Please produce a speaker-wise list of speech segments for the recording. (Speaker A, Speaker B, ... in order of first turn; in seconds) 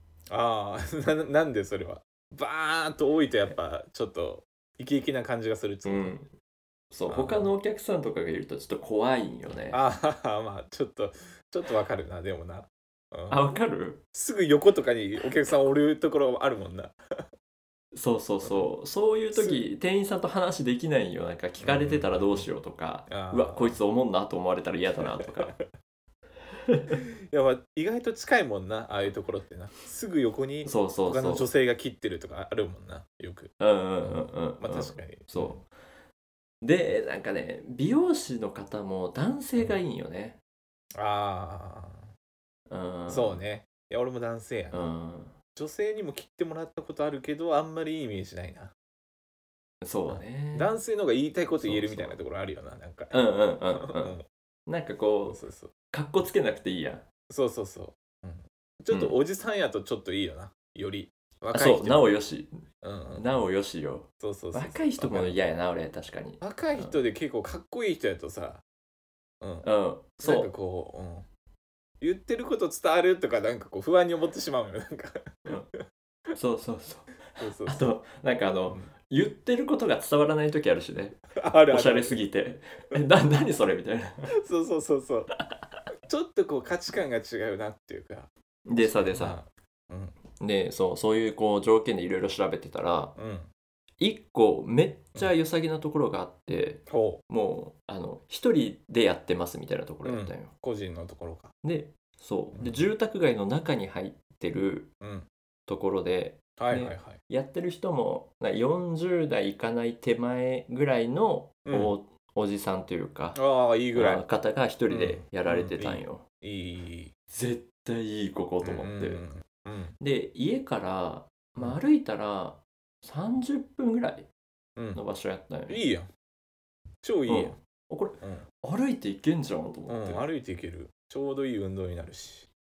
Speaker A: 0.3-6.1, 7.1-7.5, 9.7-13.4, 14.1-16.9, 18.4-18.7, 19.3-19.6, 21.6-22.5, 23.1-23.8, 25.0-25.7, 27.3-35.6, 41.0-42.1, 43.1-44.9, 45.5-48.7, 50.1-53.2, 53.7-54.2, 55.2-55.7, 57.3-62.1, 62.8-63.3, 64.2-65.4, 66.4-68.6, 69.4-69.7, 70.2-71.3, 72.0-75.5, 77.4-77.9, 81.4-82.2, 84.3-85.3, 86.1-90.2, 93.2-93.5, 96.9-97.2, 100.0-101.5, 102.5-102.8, 105.0-105.3, 106.6-107.2, 111.7-111.9, 113.3-114.2, 114.9-117.1, 118.6-120.0, 125.7-126.1, 127.0-127.6, 128.2-128.5, 129.9-132.5
Speaker B: 5.8-6.3, 6.9-9.8, 13.3-14.0, 17.9-25.6, 26.7-26.9, 30.6-31.5, 33.6-35.7, 36.6-40.4, 42.7-43.4, 44.7-45.4, 49.8-50.7, 51.6-52.2, 53.1-55.4, 55.9-57.1, 58.9-59.2, 61.5-67.0, 69.6-70.5, 76.3-84.3, 88.7-89.4, 90.4-93.1, 94.0-100.5, 101.6-104.9, 105.7-113.4, 113.9-116.2, 117.3-119.2, 120.0-124.3, 124.9-125.8, 127.3-130.2